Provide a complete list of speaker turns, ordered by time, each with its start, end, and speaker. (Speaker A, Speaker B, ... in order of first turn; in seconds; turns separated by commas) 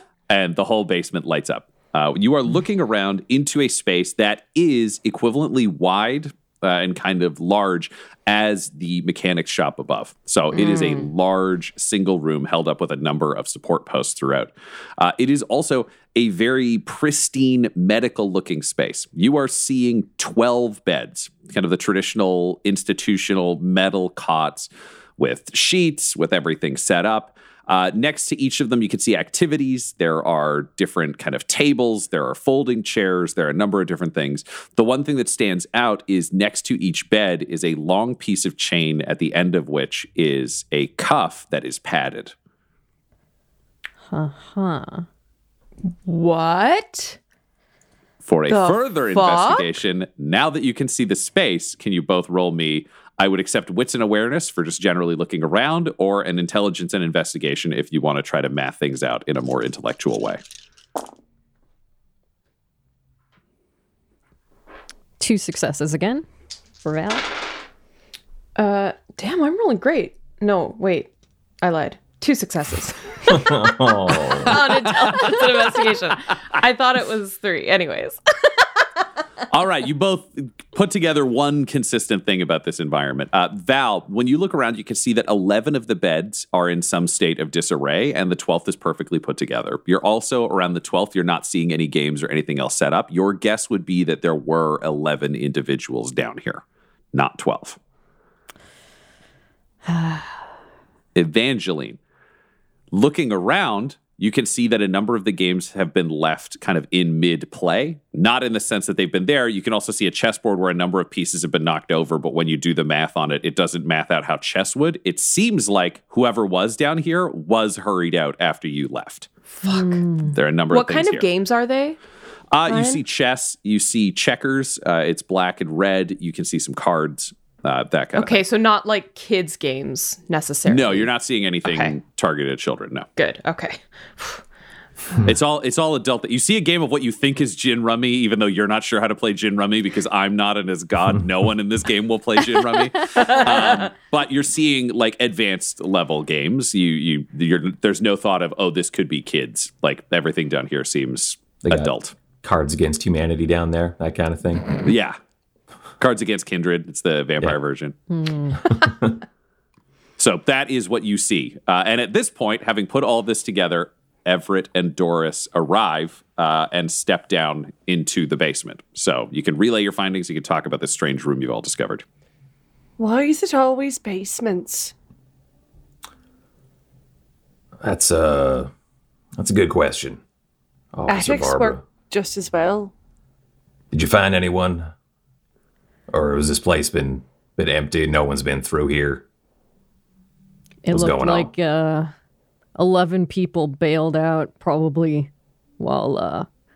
Speaker A: 0.3-42.3, Speaker B: 10.5-11.1, Speaker C: 44.1-45.0, Speaker B: 46.0-47.2, Speaker A: 48.2-60.4, Speaker B: 48.5-49.8, Speaker C: 65.2-66.2, Speaker C: 66.8-67.2, Speaker B: 68.5-78.6, Speaker D: 73.3-74.6, Speaker A: 74.7-75.9, Speaker A: 79.5-96.6, Speaker A: 97.1-97.8, Speaker C: 99.9-100.2, Speaker A: 101.1-102.0, Speaker A: 102.9-119.3, Speaker B: 119.6-120.1, Speaker C: 119.7-120.3, Speaker A: 120.3-121.2, Speaker B: 120.7-122.0, Speaker A: 122.5-128.4, Speaker B: 122.7-123.0, Speaker B: 128.1-131.1, Speaker A: 130.7-133.1, Speaker B: 131.6-131.9, Speaker B: 133.2-134.4, Speaker A: 135.2-152.1, Speaker B: 143.2-143.7, Speaker D: 151.6-154.8, Speaker A: 154.8-155.2, Speaker A: 156.0-157.9, Speaker C: 158.1-158.6, Speaker D: 158.7-159.2, Speaker A: 160.2-172.0, Speaker E: 173.0-174.9, Speaker D: 177.8-178.7, Speaker D: 179.3-180.2, Speaker D: 180.9-181.8, Speaker E: 181.1-182.9, Speaker D: 183.9-184.9, Speaker D: 186.1-189.2, Speaker C: 190.8-192.1, Speaker D: 190.9-191.5, Speaker C: 192.8-196.5